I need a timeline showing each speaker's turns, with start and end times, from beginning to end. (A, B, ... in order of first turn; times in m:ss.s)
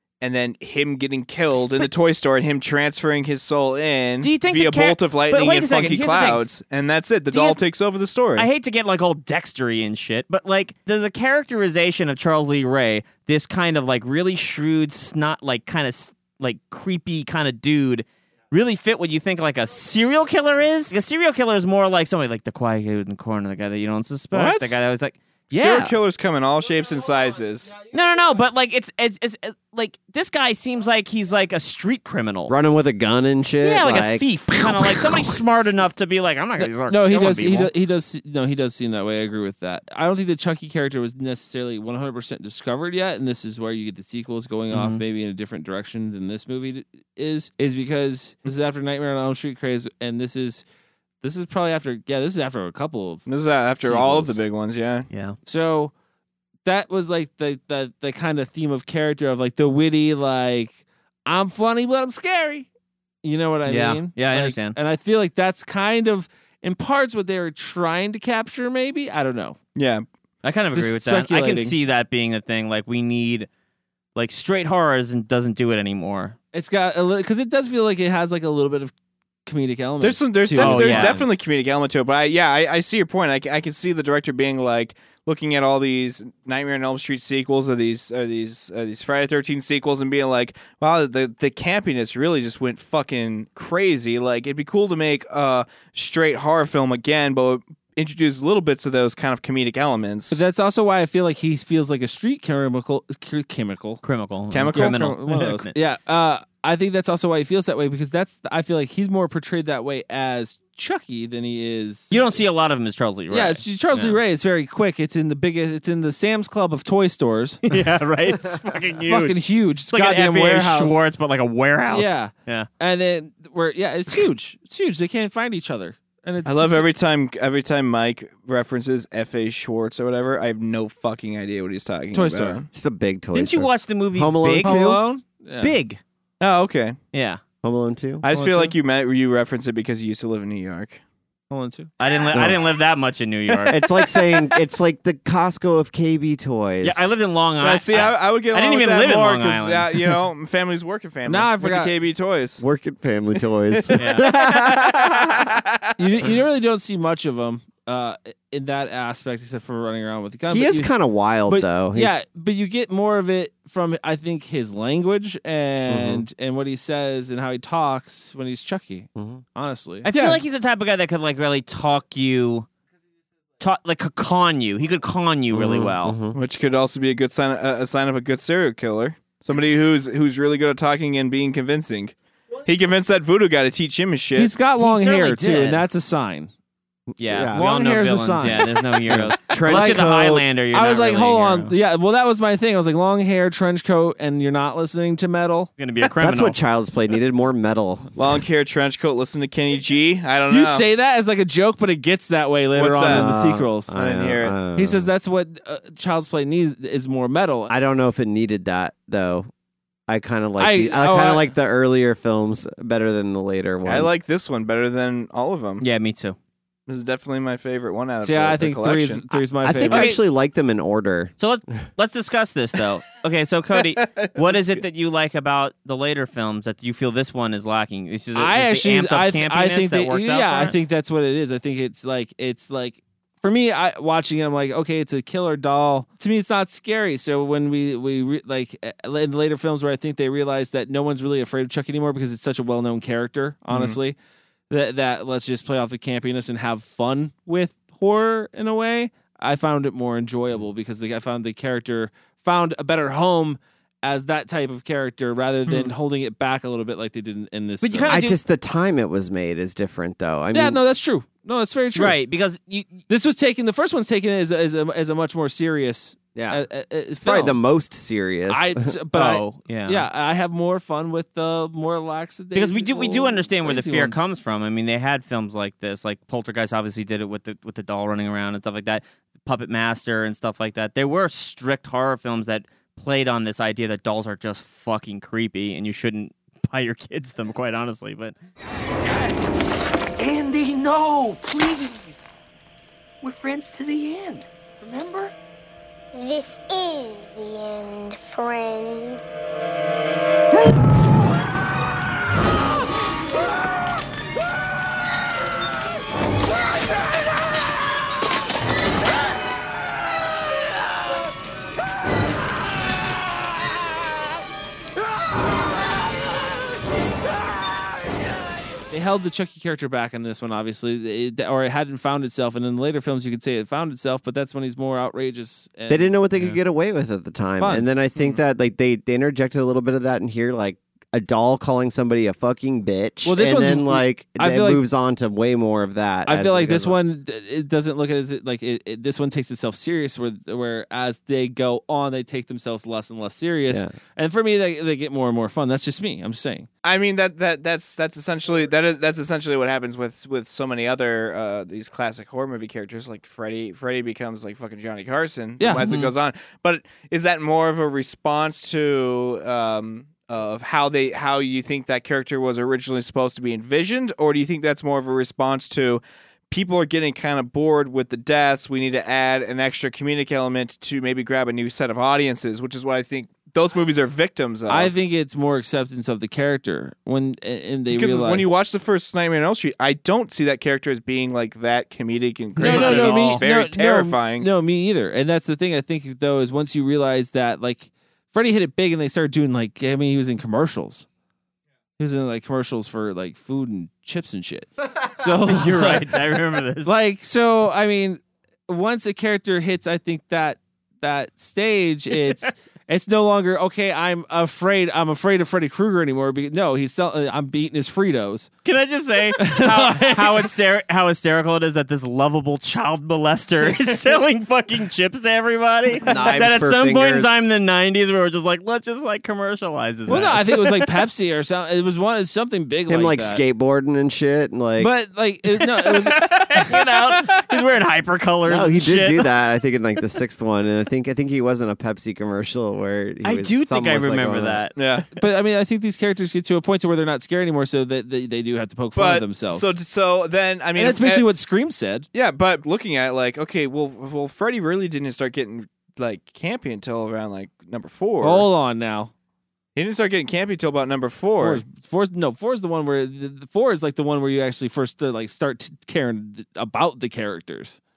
0:00.2-0:08.5 A
0:04.2-0:06.4 B
0:07.3-0:07.6 B
0:08.4-0:25.9 B
0:24.3-0:24.8 A
0:25.5-0:27.8 A
0:27.9-0:32.5 B
0:32.5-0:34.3 C
0:33.6-0:37.7 B
0:36.6-0:50.6 D
0:44.7-0:45.0 B
0:51.2-0:53.3 D
0:53.3-0:55.1 A
0:53.8-0:54.4 D
0:55.1-0:55.4 B
0:55.4-0:55.9 D
0:56.6-1:02.7 D
1:03.2-1:09.6 D
1:03.7-1:04.8 B
1:09.8-1:10.1 A
1:10.4-1:13.5 B
1:10.7-1:11.8 D
1:14.2-1:16.4 B
1:16.5-1:18.9 D
1:19.5-1:21.4 D
1:20.0-1:40.4 A
1:20.6-1:21.2 B
1:40.3-1:44.0 D
1:44.0-1:45.7 B
1:44.5-1:45.0 A
1:44.7-1:52.3 D
1:52.1-1:54.2 B
1:53.3-1:57.6 D
1:57.7-2:02.7 B
1:59.0-2:01.0 D
2:01.9-2:06.8 D
2:06.4-2:12.7 A
2:12.1-2:12.6 D
2:12.7-2:15.0 C
2:13.3-2:14.8 B
2:14.6-2:15.8 D
2:15.6-2:16.0 B
2:16.4-2:17.0 A
2:17.1-2:17.4 B
2:17.6-2:18.2 C
2:18.2-2:21.0 A
2:18.3-2:18.8 D
2:21.5-2:21.9 D
2:22.0-2:23.8 B
2:22.3-2:22.6 C
2:23.7-2:27.1 C
2:26.8-2:30.1 B
2:27.6-2:32.6 A
2:31.3-2:31.9 D
2:32.6-2:35.4 C
2:33.7-2:35.9 A
2:34.0-2:34.3 B
2:36.0-2:40.9 D
2:40.5-2:42.1 C
2:41.5-2:50.1 D
2:45.9-2:46.3 C
2:49.2-2:49.4 C
2:50.0-2:52.7 B
2:50.1-2:50.4 A
2:53.6-2:56.2 B
2:55.5-2:56.4 C
2:56.3-3:02.1 A
3:02.6-3:04.6 A
3:04.4-3:06.5 D
3:04.8-3:05.8 B
3:07.2-3:07.6 C
3:07.2-3:11.7 B
3:07.5-3:10.1 D
3:09.1-3:10.5 C
3:10.7-3:15.7 D
3:15.8-3:16.6 B
3:16.2-3:18.1 C
3:18.2-3:20.8 A
3:20.5-3:23.9 D
3:22.7-3:23.3 A
3:23.1-3:25.1 C
3:23.9-3:24.6 A
3:24.8-3:27.7 D
3:27.7-3:29.5 C
3:30.1-3:34.1 C
3:30.6-3:31.5 D
3:33.8-3:35.8 A
3:35.8-3:36.4 B
3:36.9-3:39.3 A
3:38.2-3:40.1 D
3:39.6-3:41.3 C
3:39.9-3:40.2 B
3:41.4-3:50.8 B
3:48.3-4:04.2 D
4:03.7-4:04.0 A
4:04.7-4:18.2 D
4:15.7-4:15.9 A
4:17.8-4:18.4 B
4:18.1-4:20.8 C
4:20.5-4:22.2 D
4:22.0-4:23.0 B
4:23.1-4:27.6 D
4:26.4-4:26.6 C
4:27.2-4:28.9 C
4:28.5-4:34.2 D
4:29.1-4:30.1 B
4:32.5-4:48.4 B
4:50.2-4:52.3 E
4:53.2-4:55.3 E
4:56.1-4:59.2 F
5:18.9-5:26.1 D
5:25.9-5:37.0 C
5:27.6-5:27.9 D
5:33.2-5:34.8 D
5:36.3-5:46.7 D
5:43.7-5:43.9 C
5:46.8-6:14.9 A
5:55.6-5:55.9 D
5:55.8-5:56.1 B
6:14.7-6:18.5 D
6:17.9-6:24.5 A
6:22.6-6:23.4 B
6:22.6-6:31.1 D
6:32.0-6:36.2 D
6:35.5-6:36.9 B
6:36.8-6:48.5 D
6:48.6-7:00.9 B
6:49.4-6:50.5 D
6:56.0-6:57.3 C
7:00.1-7:03.4 D
7:02.9-7:04.9 C
7:04.8-7:06.8 D
7:05.6-7:09.3 B
7:08.5-7:14.6 C
7:13.2-7:14.8 B
7:14.8-7:15.1 A
7:15.1-7:19.7 D
7:19.0-7:21.3 A
7:20.8-7:22.1 D
7:22.1-7:28.5 A
7:28.2-7:29.1 D
7:29.8-7:31.6 A
7:31.4-7:37.8 D